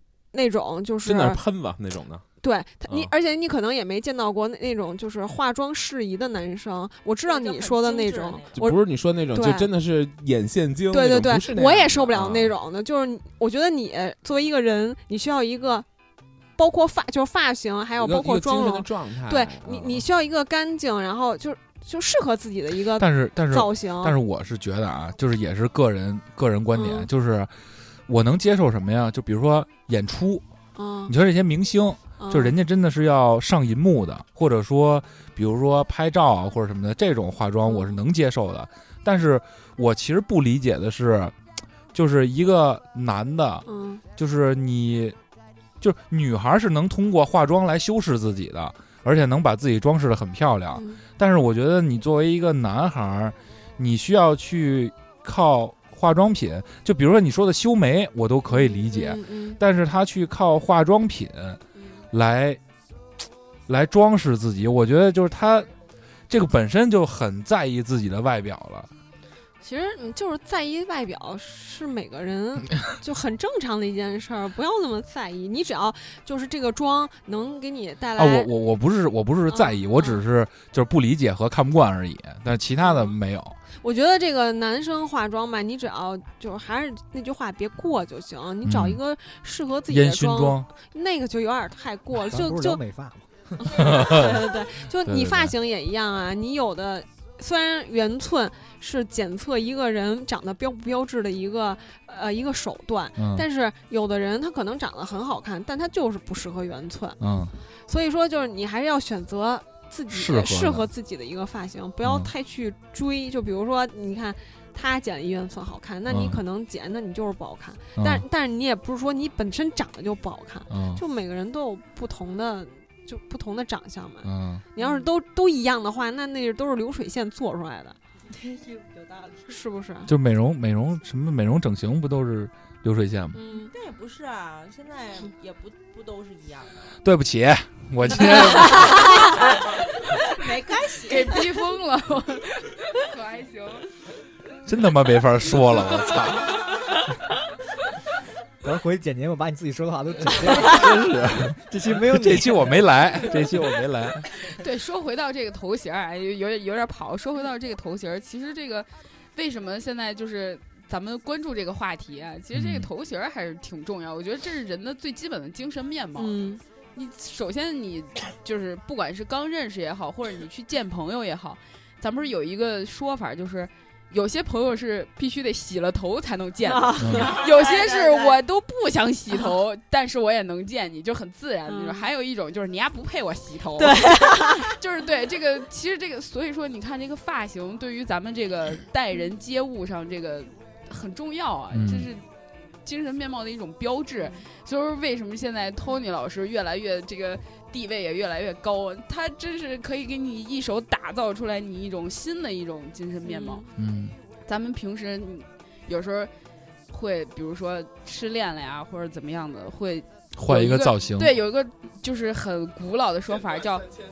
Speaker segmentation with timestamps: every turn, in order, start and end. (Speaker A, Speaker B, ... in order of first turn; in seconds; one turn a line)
Speaker A: 0.3-1.4
Speaker B: 1.0-2.2
Speaker A: 2.4-9.7
Speaker C: 7.2-8.6
Speaker B: 8.5-12.5
Speaker A: 10.9-15.8
Speaker A: 16.6-24.1
Speaker B: 18.0-20.0
Speaker D: 23.0-27.5
Speaker A: 26.7-27.1
Speaker D: 28.1-30.4
Speaker A: 30.8-31.1
Speaker D: 31.1-41.3
Speaker A: 32.2-32.5
Speaker A: 37.6-38.0
Speaker D: 41.9-43.6
Speaker A: 43.7-44.0
Speaker D: 44.2-45.1
Speaker D: 45.8-61.6
Speaker A: 50.7-51.0
Speaker A: 58.5-59.6
Speaker A: 61.8-62.0
Speaker D: 62.1-62.6
Speaker D: 63.7-65.7
Speaker D: 66.3-68.9
Speaker A: 69.6-78.5
Speaker D: 78.2-83.6
Speaker A: 79.5-80.2
Speaker A: 82.8-83.1
Speaker A: 83.8-92.8
Speaker D: 88.6-89.0
Speaker D: 89.9-90.7
Speaker E: 92.2-94.0
Speaker A: 93.6-107.2
Speaker D: 93.7-94.4
Speaker D: 95.0-95.5
Speaker D: 103.2-103.5
Speaker D: 107.2-107.5
Speaker A: 107.9-128.0
Speaker D: 110.1-110.9
Speaker D: 112.0-112.3
Speaker D: 116.1-116.4
Speaker D: 118.0-118.2
Speaker D: 120.7-121.0
Speaker D: 124.2-124.6
Speaker C: 128.3-129.5
Speaker A: 129.5-130.1
Speaker D: 130.1-133.4
Speaker A: 133.3-133.7
Speaker C: 133.5-136.7
Speaker D: 137.0-139.1
Speaker C: 138.3-141.4
Speaker F: 141.0-143.8
Speaker D: 144.7-146.6
Speaker E: 148.6-153.4
Speaker D: 150.4-154.2
Speaker F: 154.5-166.4
Speaker D: 162.5-162.9
Speaker A: 166.2-166.6
Speaker F: 166.9-192.2
Speaker A: 176.7-178.3
Speaker D: 177.0-177.3
Speaker C: 177.1-177.5
Speaker A: 181.7-182.1
Speaker A: 183.8-184.7
Speaker D: 191.7-192.1
Speaker F: 192.8-203.7
Speaker A: 203.2-203.7
Speaker D: 203.8-204.2
Speaker F: 204.4-206.3
Speaker F: 206.9-213.9
Speaker D: 210.3-211.4